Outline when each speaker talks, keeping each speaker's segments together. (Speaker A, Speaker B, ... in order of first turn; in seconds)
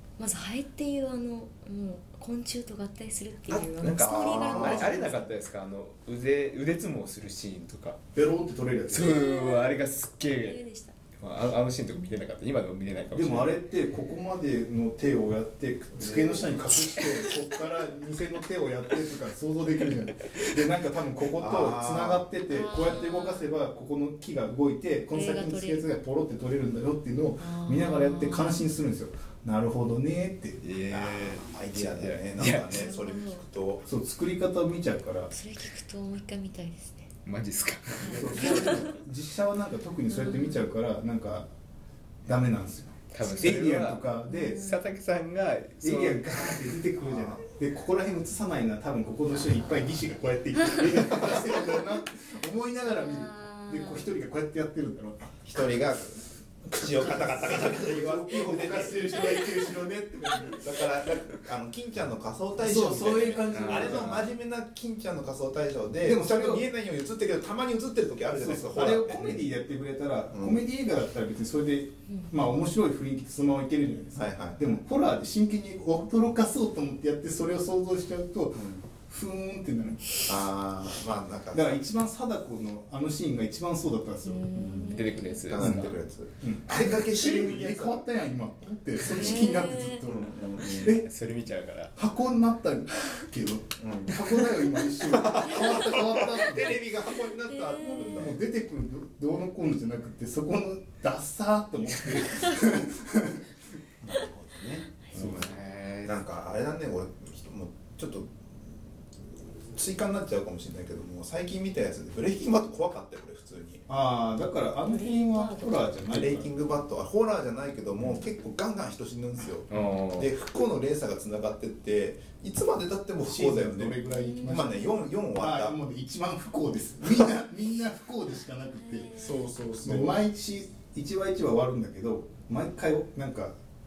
Speaker A: 0.2-5.3, 8.9-10.9, 22.5-23.5, 25.1-25.8, 27.4-28.7, 32.7-33.4, 35.3-37.1, 38.0-39.0, 40.1-40.7, 43.2-43.6, 44.3-44.9, 52.9-54.1, 84.2-85.5, 89.0-90.0, 97.5-98.2, 114.9-116.0, 124.1-124.7, 128.8-129.5
Speaker B: 3.5-8.1, 8.9-10.6, 11.2-13.6, 30.6-32.9, 37.2-38.8, 43.1-46.8, 63.5-64.3, 84.8-86.0, 90.8-92.0, 105.1-106.2, 119.7-120.3
Speaker C: 3.9-5.0, 16.0-16.4, 21.4-22.3, 30.9-33.9, 47.0-47.4, 55.5-59.7, 60.6-69.6, 70.3-70.6, 74.2-74.7, 78.5-78.8, 80.3-81.8, 84.5-88.1, 89.0-91.0, 93.8-98.4, 104.0-105.4, 106.0-108.3, 109.3-113.8, 116.1-125.8, 129.2-130.2
Speaker D: 4.5-5.0, 8.2-9.2, 13.1-30.6, 33.8-35.3, 38.0-41.5, 42.3-44.7, 45.8-55.4, 56.8-60.7, 62.6-64.2, 66.0-66.7, 68.3-80.2, 81.5-84.6, 85.6-91.1, 92.0-96.8, 98.2-103.5, 105.2-105.5, 113.9-116.5, 123.2-129.2, 129.8-133.6